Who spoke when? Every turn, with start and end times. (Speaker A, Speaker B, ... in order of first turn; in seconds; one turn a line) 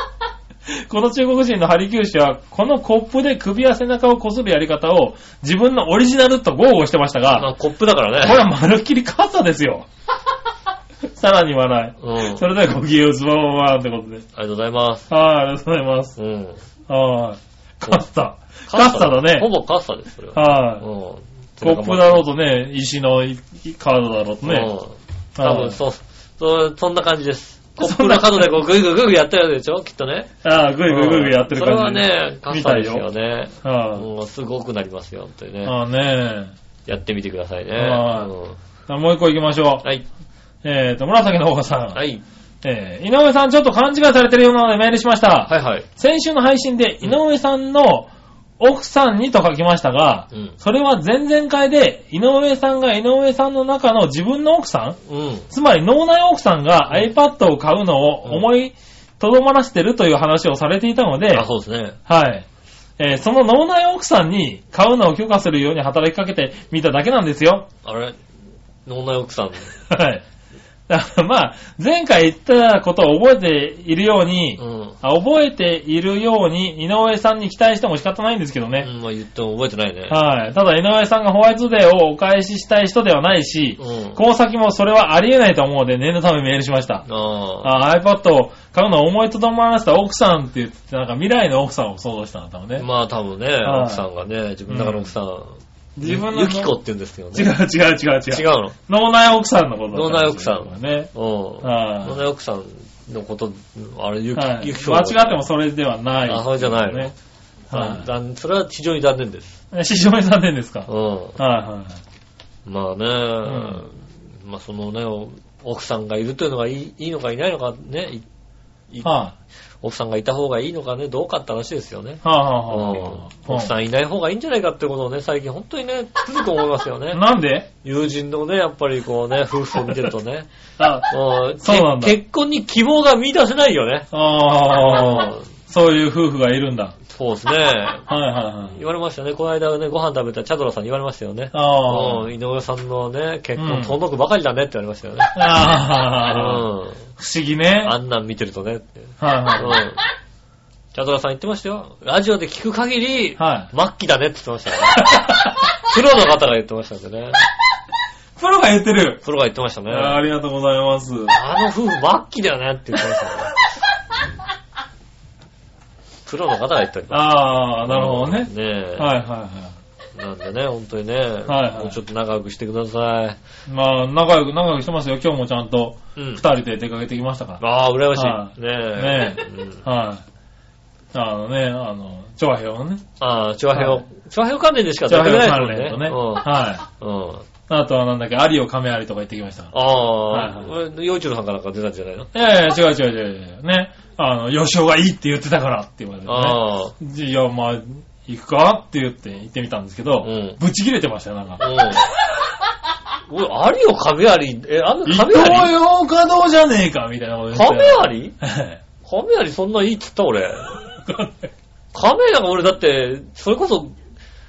Speaker A: 0.7-7.5
Speaker B: 7.3-8.4
Speaker A: 8.2-9.9
Speaker A: 11.1-14.2
Speaker B: 12.0-12.4
Speaker B: 14.3-15.1
Speaker A: 15.1-16.2
Speaker B: 16.2-16.6
Speaker A: 16.9-19.5
Speaker B: 18.7-22.2
Speaker A: 20.3-20.8
Speaker A: 21.6-24.7
Speaker B: 24.4-30.3
Speaker A: 25.4-25.8
Speaker A: 27.8-28.5
Speaker A: 30.4-33.0
Speaker B: 30.9-35.7
Speaker A: 33.6-34.0
Speaker A: 35.6-36.5
Speaker B: 36.9-38.6
Speaker A: 37.8-38.3
Speaker A: 38.9-39.9
Speaker A: 40.6-42.0
Speaker B: 41.9-42.2
Speaker A: 42.6-55.0
Speaker B: 45.5-45.9
Speaker B: 50.3-50.5
Speaker B: 55.1-55.5
Speaker A: 55.5-61.5
Speaker B: 61.3-62.0
Speaker A: 62.0-62.4
Speaker A: 63.0-67.7
Speaker B: 67.8-68.2
Speaker B: 68.8-69.7
Speaker A: 69.9-70.2
Speaker A: 70.9-78.9
Speaker B: 74.6-75.0
Speaker B: 78.8-80.2
Speaker A: 80.1-87.0
Speaker B: 83.8-84.2
Speaker B: 87.1-87.7
Speaker A: 87.6-92.8
Speaker B: 92.8-97.5
Speaker A: 93.6-94.0
Speaker A: 94.7-95.1
Speaker A: 96.0-96.7
Speaker A: 97.3-101.1
Speaker B: 98.3-98.7
Speaker B: 99.9-105.4
Speaker A: 101.6-102.2
Speaker A: 104.3-107.1
Speaker B: 106.3-107.1
Speaker A: 107.7-108.0
Speaker B: 107.7-109.6
Speaker A: 109.7-112.0
Speaker B: 110.9-111.4
Speaker B: 112.6-118.2
Speaker A: 113.4-113.8
Speaker B: 118.9-119.1
Speaker A: 119.0-119.3
Speaker B: 119.8-127.2
Speaker A: 122.2-123.7
Speaker A: 127.1-127.7
Speaker B: 127.8-130.5
Speaker A: 130.8-132.2
Speaker B: 131.1-134.1
Speaker A: 134.1-136.9
Speaker B: 134.7-135.4
Speaker B: 137.1-138.0
Speaker A: 138.1-138.8
Speaker B: 138.7-145.4
Speaker A: 141.5-142.3
Speaker A: 143.6-144.0
Speaker A: 145.3-146.7
Speaker B: 146.2-147.0
Speaker A: 147.2-147.9
Speaker B: 147.8-150.0
Speaker A: 149.2-149.8
Speaker B: 150.9-157.3
Speaker A: 153.4-153.7
Speaker A: 154.9-155.6
Speaker A: 158.4-159.2
Speaker B: 159.2-160.2
Speaker A: 159.9-161.4
Speaker B: 161.3-163.5
Speaker B: 166.2-167.3
Speaker A: 167.1-169.8
Speaker B: 167.8-169.1
Speaker B: 170.2-173.4
Speaker A: 171.5-172.0
Speaker A: 173.7-177.6
Speaker B: 176.2-176.4
Speaker B: 177.6-179.8
Speaker A: 178.1-180.2
Speaker A: 181.1-183.0
Speaker B: 183.2-187.5
Speaker A: 183.7-184.0
Speaker A: 185.1-186.8
Speaker A: 187.7-189.7
Speaker B: 189.7-192.3
Speaker A: 190.3-190.7
Speaker A: 192.3-201.6
Speaker B: 196.2-196.9
Speaker B: 200.2-200.6
Speaker B: 201.6-202.0
Speaker B: 203.3-205.7
Speaker A: 205.1-208.8
Speaker B: 207.5-208.3
Speaker B: 209.0-210.7
Speaker A: 210.9-211.5
Speaker B: 211.9-213.9